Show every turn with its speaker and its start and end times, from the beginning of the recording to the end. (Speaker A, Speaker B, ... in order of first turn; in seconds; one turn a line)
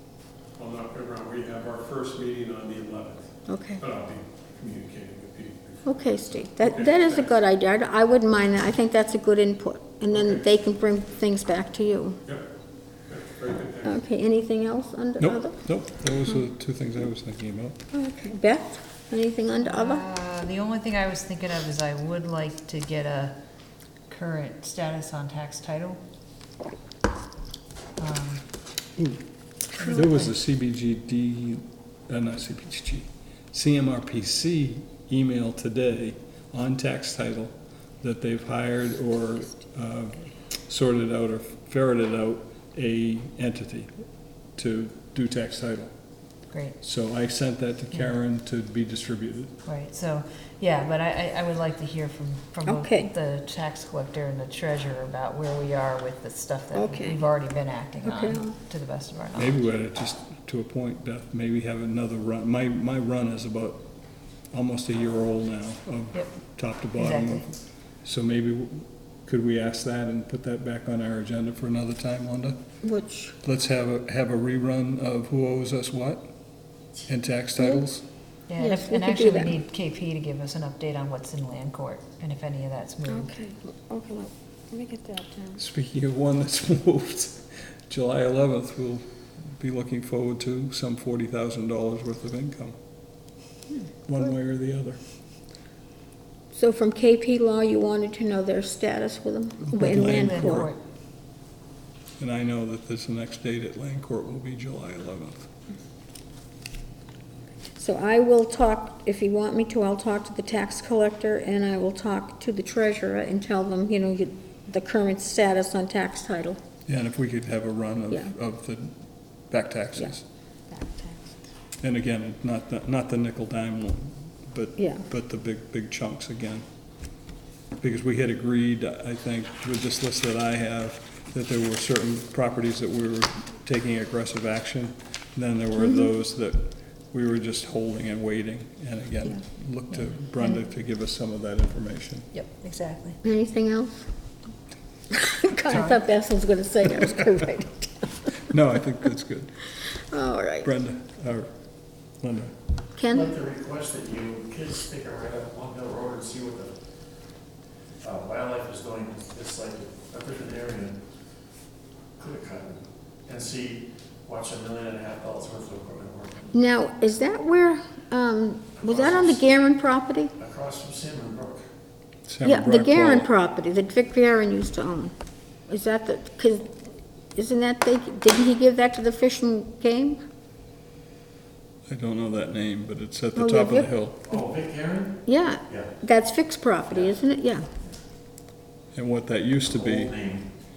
Speaker A: 0.6-3.1
Speaker B: 1.5-3.1
Speaker C: 3.5-3.8
Speaker A: 3.8-5.8
Speaker B: 3.9-5.7
Speaker C: 5.8-12.2
Speaker A: 6.8-7.2
Speaker B: 13.1-13.7
Speaker A: 13.2-13.8
Speaker C: 13.8-15.6
Speaker B: 15.2-17.8
Speaker C: 17.9-20.1
Speaker D: 19.6-23.4
Speaker D: 24.1-26.0
Speaker D: 28.0-28.4
Speaker B: 29.8-43.9
Speaker C: 29.8-30.1
Speaker D: 29.8-30.1
Speaker B: 44.6-45.9
Speaker D: 46.5-46.8
Speaker B: 46.8-49.5
Speaker D: 49.6-59.6
Speaker C: 52.6-53.1
Speaker C: 56.7-57.2
Speaker C: 58.0-58.5
Speaker B: 59.4-63.9
Speaker B: 64.5-67.5
Speaker D: 67.0-67.4
Speaker B: 68.0-72.6
Speaker C: 72.8-73.3
Speaker B: 73.4-76.3
Speaker B: 77.1-78.0
Speaker D: 78.5-83.3
Speaker C: 78.6-79.5
Speaker C: 83.1-85.6
Speaker B: 85.6-92.8
Speaker B: 94.1-95.0
Speaker C: 96.5-100.7
Speaker B: 99.7-100.7
Speaker D: 99.8-100.8
Speaker B: 102.2-105.5
Speaker C: 107.8-116.6
Speaker B: 116.9-120.2
Speaker C: 120.7-121.3
Speaker B: 121.8-126.7
Speaker C: 124.8-125.0
Speaker B: 127.8-142.3
Speaker C: 135.8-136.1
Speaker D: 142.3-143.2
Speaker C: 143.2-144.1
Speaker C: 145.2-148.0
Speaker D: 145.7-146.0
Speaker B: 148.5-149.8
Speaker C: 150.1-150.7
Speaker B: 150.6-151.5
Speaker B: 152.2-152.5
Speaker C: 153.0-153.3
Speaker E: 153.1-156.7
Speaker E: 158.0-160.9
Speaker E: 162.2-166.6
Speaker C: 166.5-170.3
Speaker E: 168.8-169.4
Speaker E: 170.4-171.6
Speaker B: 172.3-173.3
Speaker C: 172.4-175.1
Speaker C: 175.7-176.7
Speaker C: 177.3-180.2
Speaker B: 181.9-184.2
Speaker C: 183.4-183.9
Speaker E: 184.3-185.9
Speaker C: 185.3-187.7
Speaker E: 186.9-187.2
Speaker B: 188.9-190.1
Speaker E: 189.7-190.5